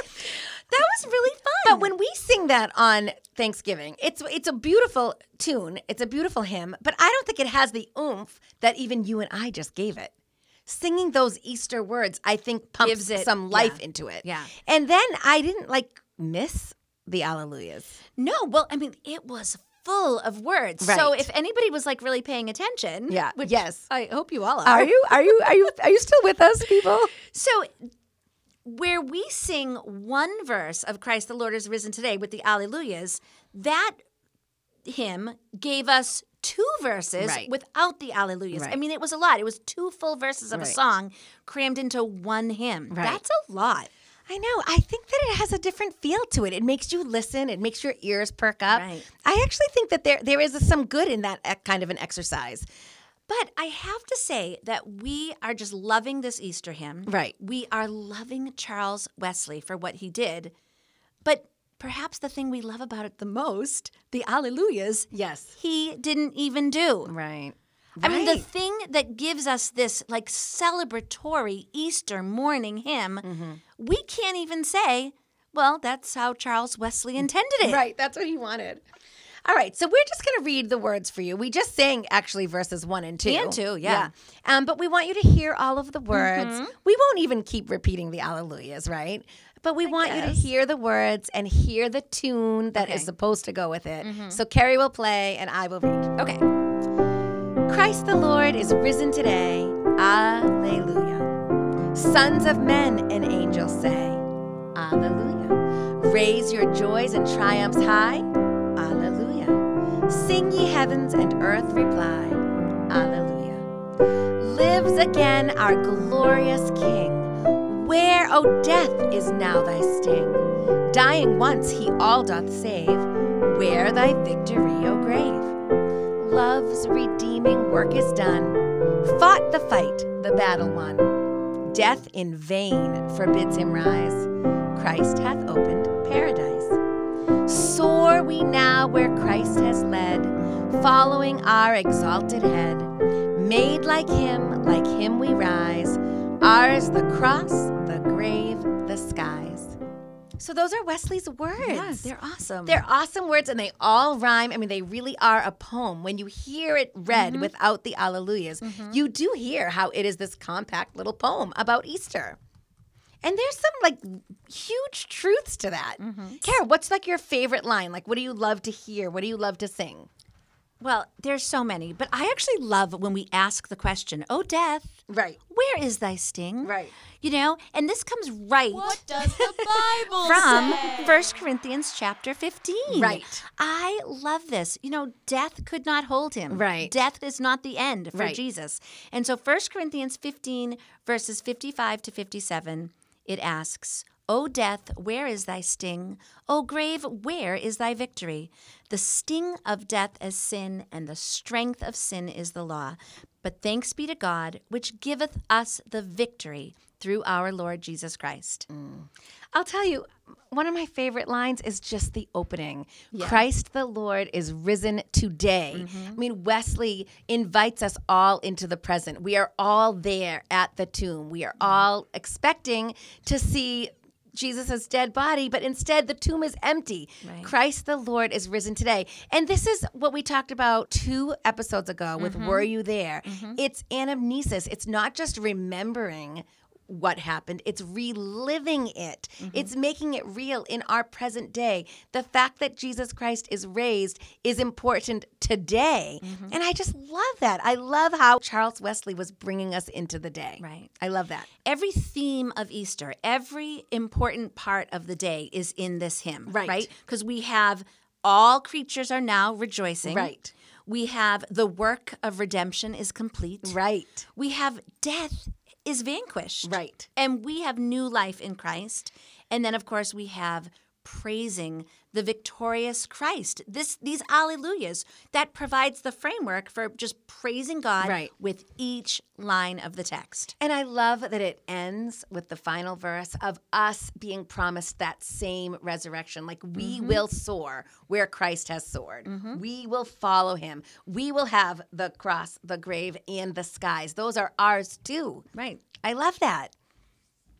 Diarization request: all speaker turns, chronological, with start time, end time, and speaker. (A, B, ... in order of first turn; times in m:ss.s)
0:00.2-0:01.9 A
0:01.6-0:10.1 B
0:10.6-0:18.0 B
0:12.8-0:14.5 A
0:18.2-0:25.0 A
0:20.8-0:21.3 B
0:23.1-0:23.8 B
0:24.6-0:27.1 B
0:27.3-0:27.9 A
0:28.6-0:34.0 A
0:34.8-0:43.9 A
0:37.2-0:37.5 B
0:40.5-0:40.8 B
0:42.9-0:43.2 B
0:44.3-0:52.6 B
0:48.7-0:49.1 A
0:53.3-1:00.5 A
0:57.0-0:57.3 B
1:01.2-1:07.1 A
1:05.1-1:05.5 B
1:07.0-1:08.4 B
1:08.0-1:13.2 A
1:13.2-1:13.6 B
1:13.8-1:17.8 A
1:17.6-1:18.8 B
1:19.4-1:36.1 B
1:23.2-1:24.1 A
1:26.1-1:26.7 A
1:29.8-1:30.4 A
1:32.7-1:33.1 A
1:34.0-1:34.4 A
1:36.2-1:36.4 A
1:37.7-1:41.3 B
1:41.9-1:44.2 B
1:44.7-1:53.6 B
1:54.4-2:05.5 B
2:06.2-2:11.1 B
2:11.6-2:16.8 B
2:17.4-2:29.8 B
2:30.4-2:32.1 B
2:31.6-2:32.8 A
2:32.6-2:42.4 B
2:37.1-2:37.5 A
2:38.6-2:39.0 A
2:43.2-2:50.1 B
2:46.0-2:46.4 A
2:50.8-2:59.0 A
2:55.1-2:55.4 B
2:56.6-2:56.9 B
2:58.7-3:01.4 C
2:59.4-3:00.8 B
3:00.2-3:28.7 A
3:02.9-3:03.4 B
3:06.5-3:07.0 B
3:08.1-3:08.4 B
3:28.7-4:11.5 B
3:33.1-3:33.4 A
3:35.7-3:36.2 A
3:47.2-3:47.5 A
3:52.2-3:52.7 A
3:53.2-3:53.6 A
3:59.4-3:59.7 A
4:06.2-4:06.6 A
4:10.6-4:10.9 A
4:11.6-4:20.3 A
4:16.5-4:16.9 B
4:20.0-4:20.5 B
4:20.8-4:23.8 A
4:23.6-4:24.2 B
4:24.3-4:40.5 A
4:26.6-4:27.1 B
4:38.0-4:38.3 B
4:40.6-4:55.4 B
4:46.8-4:47.2 A
4:49.2-4:49.6 A
4:55.5-4:55.8 A
4:56.0-4:56.7 B